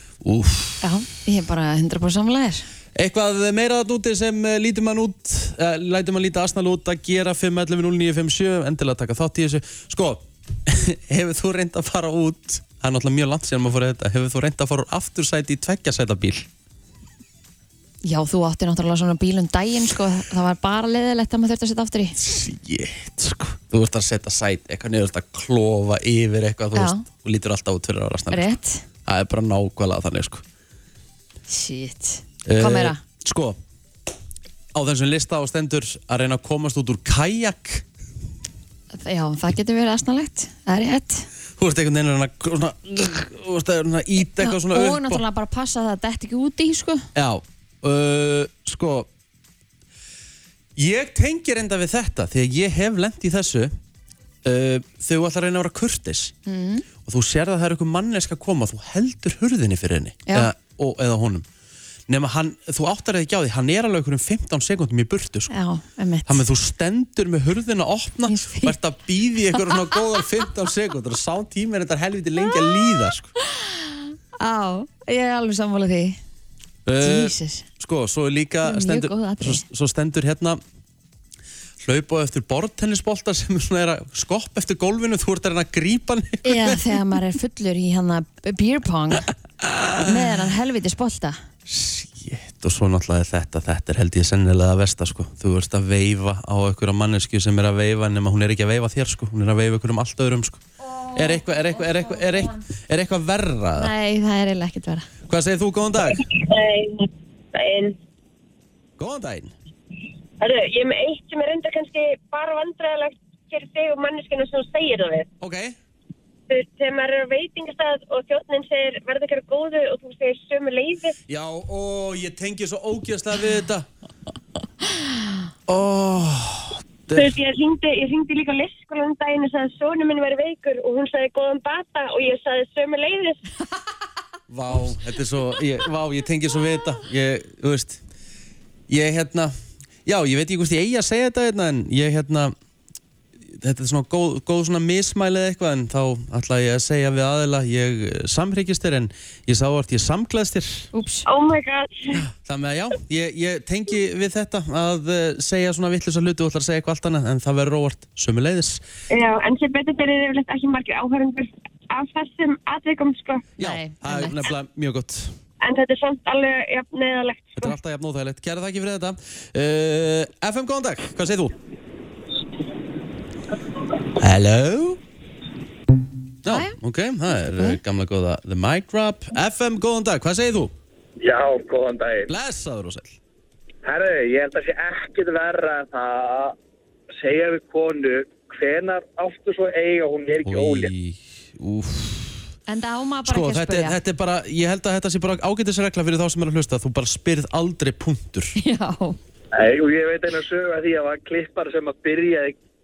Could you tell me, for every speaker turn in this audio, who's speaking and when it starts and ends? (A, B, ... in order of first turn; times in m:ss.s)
0:00.2-0:00.8 A
0:00.8-0:02.7 B
0:03.0-0:16.5 A
0:18.0-0:22.2 B
0:22.2-0:30.4 A
0:26.7-0:27.0 B
0:28.3-0:28.8 B
0:31.5-0:33.0 B
0:32.4-0:33.6 A
0:34.7-0:37.8 A
0:38.9-0:41.3 B
0:41.6-0:45.2 A
0:44.4-0:47.1 B
0:47.1-0:49.1 A
0:50.8-0:53.8 A
0:54.4-0:56.3 A
0:56.4-0:56.8 B
0:57.0-1:01.4 A
1:02.1-1:05.5 A
1:05.5-1:06.4 B
1:06.2-1:13.3 A
1:08.3-1:08.8 B
1:09.5-1:10.0 B
1:12.4-1:12.8 B
1:13.4-1:16.2 B
1:16.9-1:20.6 A
1:17.0-1:17.6 B
1:18.6-1:19.6 B
1:21.8-1:26.8 A
1:26.4-1:29.3 B
1:29.6-1:30.2 A
1:30.0-1:31.4 B
1:31.6-1:40.6 A
1:41.1-1:43.9 A
1:43.8-1:45.1 B
1:45.3-1:46.2 A
1:46.1-1:48.0 C
1:49.0-1:49.5 A
1:50.4-1:55.3 C
1:55.4-1:55.8 A
1:56.5-2:01.1 C
2:01.3-2:03.9 A
2:05.7-2:07.4 A
2:07.1-2:13.4 C
2:14.5-2:18.0 A
2:18.9-2:19.5 A
2:20.0-2:22.5 A
2:23.5-2:30.9 A
2:30.9-2:31.2 B
2:31.2-2:32.2 C
2:32.1-2:38.8 A
2:39.1-2:43.4 C
2:43.6-2:44.5 B
2:43.6-2:45.4 A
2:45.6-2:47.7 C
2:47.6-2:51.6 A
2:54.2-2:55.0 A
2:56.4-3:00.7 A
2:56.5-2:56.8 B
3:01.2-3:02.3 D
3:02.3-3:03.2 A
3:03.8-3:06.5 D
3:07.2-3:10.9 D
3:10.4-3:12.4 A
3:12.7-3:14.0 B
3:13.2-3:18.6 A
3:18.6-3:19.2 B
3:19.5-3:22.5 D